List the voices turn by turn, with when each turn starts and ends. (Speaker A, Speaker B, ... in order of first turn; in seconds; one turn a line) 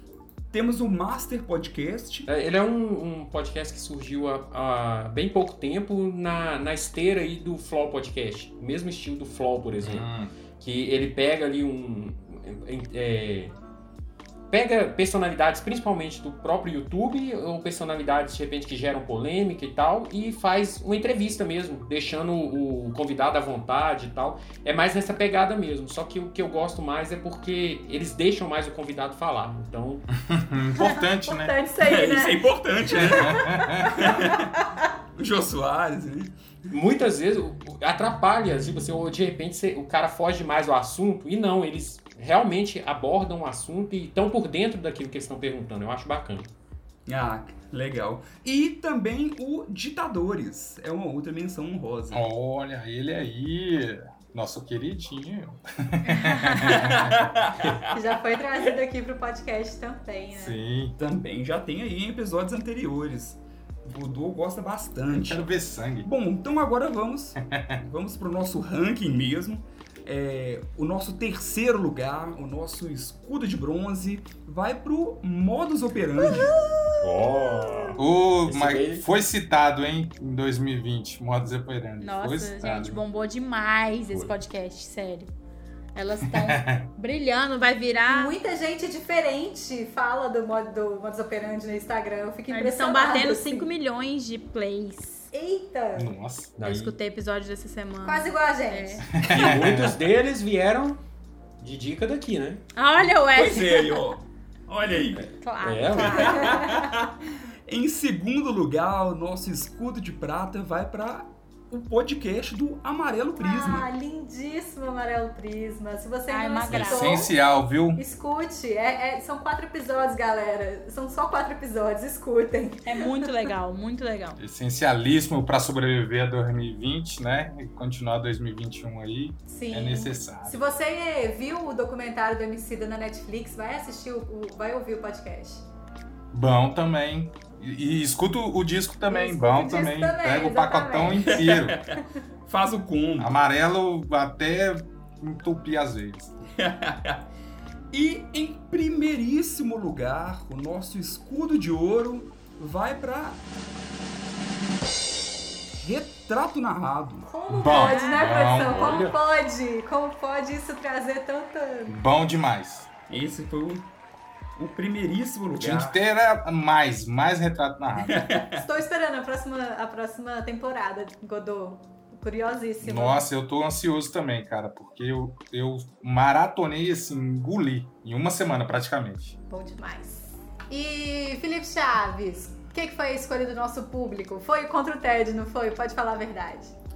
Speaker A: 0.5-2.3
Speaker B: 2.2-10.1
Speaker C: 9.8-10.3
Speaker B: 10.6-13.6
Speaker B: 14.5-30.1
Speaker C: 30.3-31.5
Speaker D: 30.8-34.8
Speaker A: 31.8-34.5
Speaker C: 33.0-34.0
Speaker A: 35.1-36.3
Speaker B: 36.7-46.5
Speaker A: 47.0-52.2
Speaker C: 52.1-57.3
Speaker E: 56.2-56.7
Speaker A: 56.6-57.9
Speaker D: 57.9-60.6
Speaker C: 60.3-61.0
Speaker A: 61.0-65.5
Speaker C: 65.1-66.1
Speaker A: 66.0-76.6
Speaker E: 76.3-77.0
Speaker B: 77.0-79.0
Speaker C: 78.0-83.0
Speaker E: 82.0-85.3
Speaker E: 85.9-88.3
Speaker C: 86.2-86.9
Speaker D: 88.1-93.7
Speaker E: 92.5-95.3
Speaker D: 95.3-96.1
Speaker C: 95.9-96.6
Speaker B: 96.6-96.9
Speaker E: 96.6-99.1
Speaker D: 98.0-99.1
Speaker C: 99.1-100.0
Speaker B: 99.2-101.0
Speaker B: 101.6-102.6
Speaker E: 102.8-104.2
Speaker A: 103.3-105.2
Speaker E: 105.4-107.0
Speaker B: 105.6-106.4
Speaker A: 105.9-107.1
Speaker A: 107.7-113.9
Speaker D: 113.4-117.3
Speaker E: 116.3-117.3
Speaker C: 116.7-118.0
Speaker D: 117.9-123.3
Speaker E: 122.8-124.4
Speaker C: 124.4-130.6
Speaker D: 129.5-135.7
Speaker C: 136.3-141.8
Speaker D: 139.1-142.1
Speaker A: 141.1-143.3
Speaker C: 143.2-146.3
Speaker A: 146.6-147.2
Speaker A: 147.9-153.4
Speaker A: 155.8-157.3
Speaker D: 157.2-161.9
Speaker C: 157.5-159.0
Speaker E: 157.6-158.4
Speaker B: 158.6-159.2
Speaker C: 161.9-162.9
Speaker A: 163.1-163.9
Speaker A: 164.6-166.0
Speaker C: 165.6-168.3
Speaker A: 168.0-168.6
Speaker D: 168.6-173.2
Speaker C: 172.8-179.3
Speaker D: 179.5-186.7